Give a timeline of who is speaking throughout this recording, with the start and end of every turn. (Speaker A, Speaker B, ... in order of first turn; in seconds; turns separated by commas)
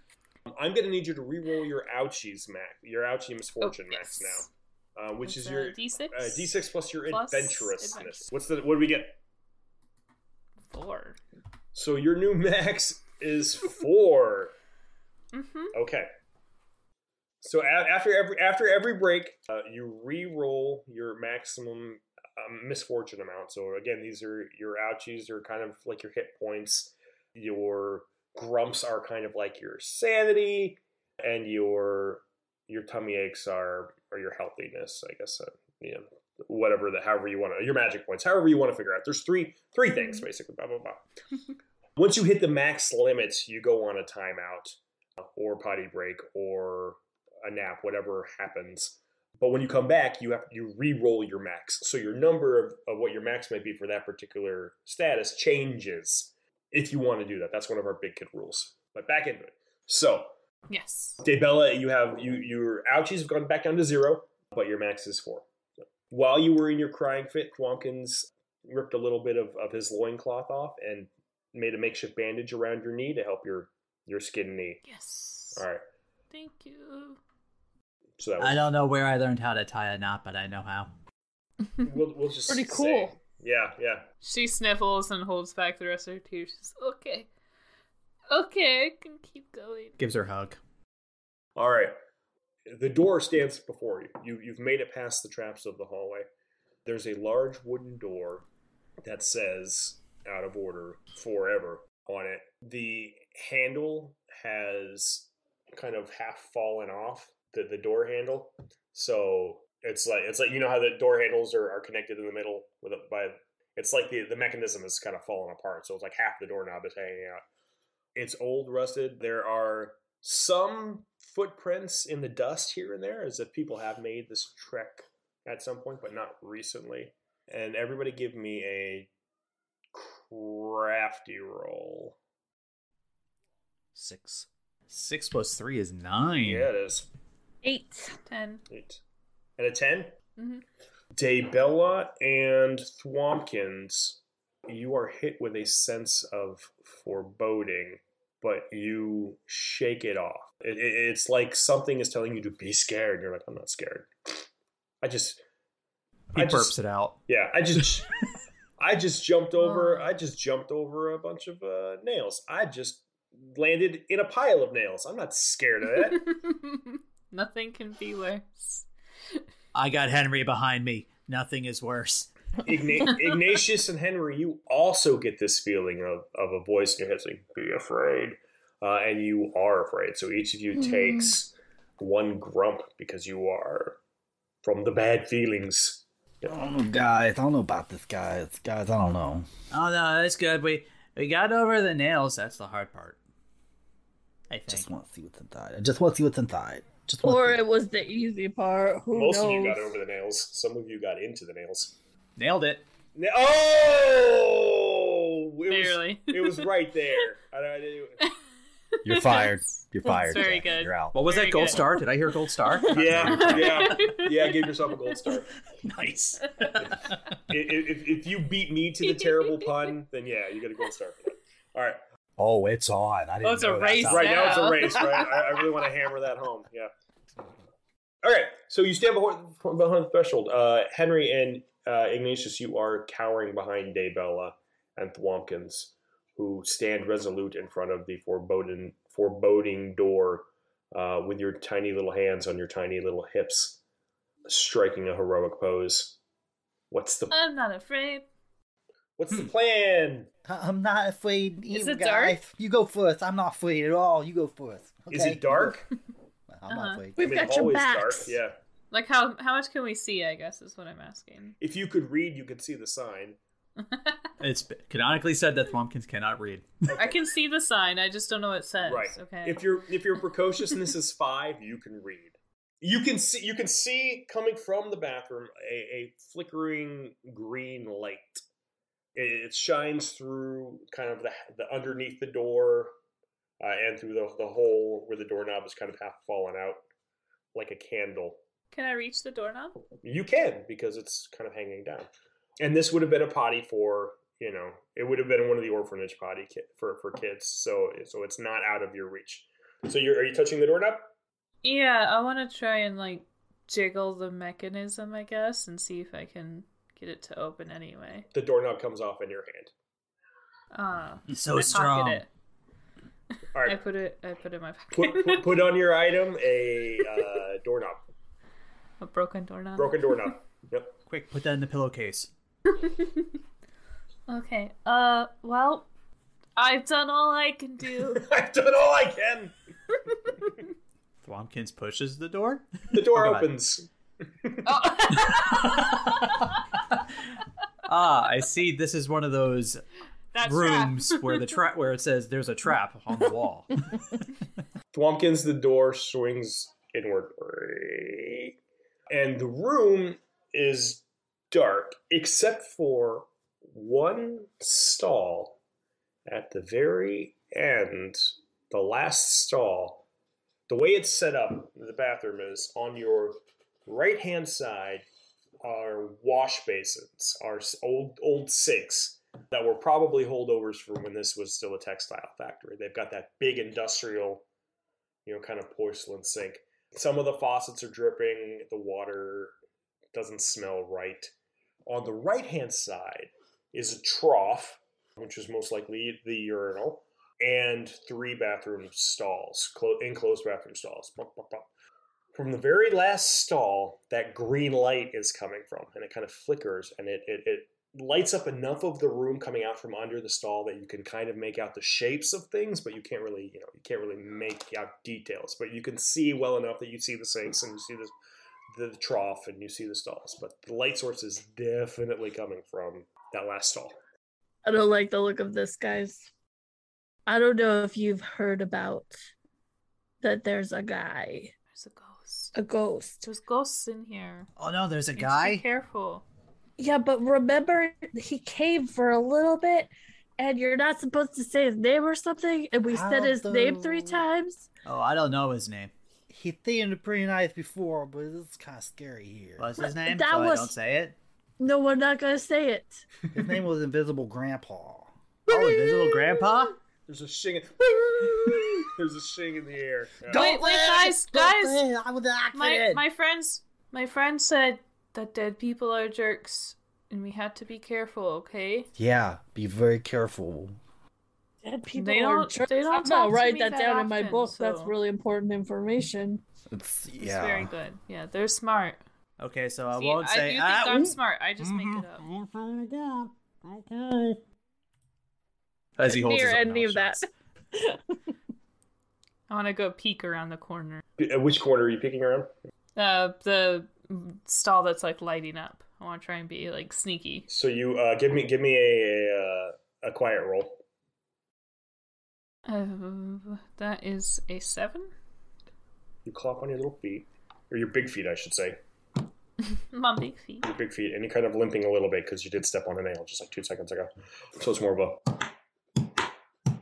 Speaker A: 0.5-9.2, Speaker B: 3.6-4.5, Speaker B: 5.2-6.5, Speaker B: 7.1-8.3, Speaker B: 10.7-11.2, Speaker A: 11.8-14.5, Speaker B: 15.3-15.8, Speaker A: 15.7-16.1, Speaker A: 17.4-41.0, Speaker A: 42.0-60.3, Speaker B: 60.7-61.2, Speaker A: 61.2-65.5, Speaker A: 66.1-74.8, Speaker B: 74.8-75.6, Speaker A: 75.5-75.8, Speaker B: 76.3-77.2, Speaker A: 78.2-78.7, Speaker C: 78.4-80.9, Speaker A: 81.8-84.1, Speaker D: 82.5-83.2, Speaker B: 84.2-87.3, Speaker B: 88.3-90.0, Speaker C: 90.0-90.6, Speaker A: 91.6-92.0, Speaker A: 92.7-96.3, Speaker A: 96.9-98.5, Speaker A: 99.0-117.4, Speaker A: 118.2-129.1, Speaker A: 129.9-132.2, Speaker E: 133.9-134.5, Speaker C: 134.9-136.7, Speaker A: 136.4-137.1, Speaker D: 137.6-138.2, Speaker B: 138.3-138.6, Speaker A: 138.7-139.0, Speaker A: 139.6-140.2, Speaker B: 140.4-140.6, Speaker A: 141.2-154.4, Speaker A: 155.0-155.4, Speaker C: 156.3-157.2, Speaker A: 156.4-158.1, Speaker A: 158.8-166.3, Speaker B: 159.6-160.1, Speaker B: 166.0-169.4, Speaker C: 169.8-172.3, Speaker A: 172.7-184.0, Speaker A: 184.6-186.5, Speaker E: 186.5-189.5, Speaker C: 189.7-193.2, Speaker C: 194.5-194.9, Speaker E: 194.7-197.6, Speaker D: 197.2-199.9, Speaker A: 199.1-201.9, Speaker C: 202.4-202.9, Speaker A: 203.2-208.2, Speaker B: 205.7-206.7, Speaker B: 209.0-212.0, Speaker E: 209.1-211.2, Speaker C: 211.1-213.6, Speaker A: 212.9-215.5, Speaker E: 213.0-213.7, Speaker B: 213.2-214.7, Speaker C: 215.9-217.2, Speaker A: 217.5-222.0, Speaker B: 219.1-219.9, Speaker E: 222.4-224.9, Speaker B: 223.4-225.4, Speaker A: 224.0-226.9, Speaker A: 228.2-243.8, Speaker A: 244.5-246.2, Speaker A: 246.9-247.3, Speaker B: 247.3-248.2, Speaker A: 249.2-250.3, Speaker E: 250.4-255.8, Speaker B: 251.7-252.4, Speaker A: 255.1-255.9, Speaker E: 256.5-257.5, Speaker B: 256.7-257.1, Speaker D: 257.2-258.4, Speaker A: 257.2-258.6, Speaker B: 258.9-261.6, Speaker A: 261.6-263.4, Speaker B: 263.8-264.3, Speaker C: 264.4-266.9, Speaker A: 266.9-267.2, Speaker B: 266.9-269.7, Speaker A: 268.8-278.4, Speaker A: 279.1-282.9, Speaker A: 283.6-286.8, Speaker A: 287.5-288.4, Speaker B: 288.7-289.9, Speaker A: 290.0-292.1, Speaker A: 292.6-301.1, Speaker B: 301.6-308.3, Speaker A: 308.3-309.7, Speaker B: 310.7-312.3, Speaker C: 311.3-312.2, Speaker A: 313.5-313.8, Speaker B: 313.6-315.7, Speaker A: 314.9-318.0, Speaker B: 319.0-320.3, Speaker A: 319.8-321.0, Speaker C: 321.1-322.3, Speaker B: 322.7-323.3, Speaker B: 324.3-325.9, Speaker B: 326.6-328.3, Speaker A: 328.1-329.5, Speaker C: 331.2-333.5, Speaker A: 332.9-333.9, Speaker A: 334.4-335.1, Speaker B: 334.6-336.4, Speaker C: 335.4-337.0, Speaker C: 337.9-339.8, Speaker B: 340.3-341.6, Speaker C: 340.4-343.8, Speaker A: 344.9-348.5, Speaker A: 349.1-355.6, Speaker A: 356.3-360.1, Speaker A: 360.7-365.1, Speaker A: 365.6-374.4, Speaker A: 375.3-379.6, Speaker A: 380.1-381.3, Speaker A: 381.9-391.7, Speaker A: 392.3-408.1, Speaker A: 408.7-414.0, Speaker D: 414.6-416.3, Speaker D: 417.3-419.2, Speaker D: 420.2-421.5, Speaker B: 421.7-422.6, Speaker D: 422.6-423.3, Speaker B: 423.2-424.5, Speaker C: 424.6-425.6, Speaker B: 425.2-426.2, Speaker D: 426.8-434.7, Speaker E: 432.9-434.2, Speaker C: 434.9-435.9, Speaker E: 436.3-439.8, Speaker C: 439.6-441.2, Speaker D: 439.8-440.7, Speaker D: 441.6-443.0, Speaker E: 443.3-446.4, Speaker C: 445.5-446.8, Speaker A: 447.1-450.5, Speaker E: 450.3-453.0, Speaker B: 450.3-451.8, Speaker B: 452.5-458.9, Speaker E: 459.0-460.8, Speaker D: 461.6-466.4, Speaker B: 461.9-464.9, Speaker E: 466.7-467.7, Speaker B: 467.2-469.0, Speaker C: 469.4-471.1, Speaker B: 469.9-472.3, Speaker E: 471.6-474.4, Speaker C: 476.0-477.2, Speaker D: 476.1-478.0, Speaker B: 479.5-481.0, Speaker A: 481.2-482.5, Speaker B: 483.0-487.5, Speaker A: 487.5-490.8, Speaker B: 492.7-495.1, Speaker A: 496.2-498.8, Speaker B: 499.7-500.7, Speaker A: 500.6-505.5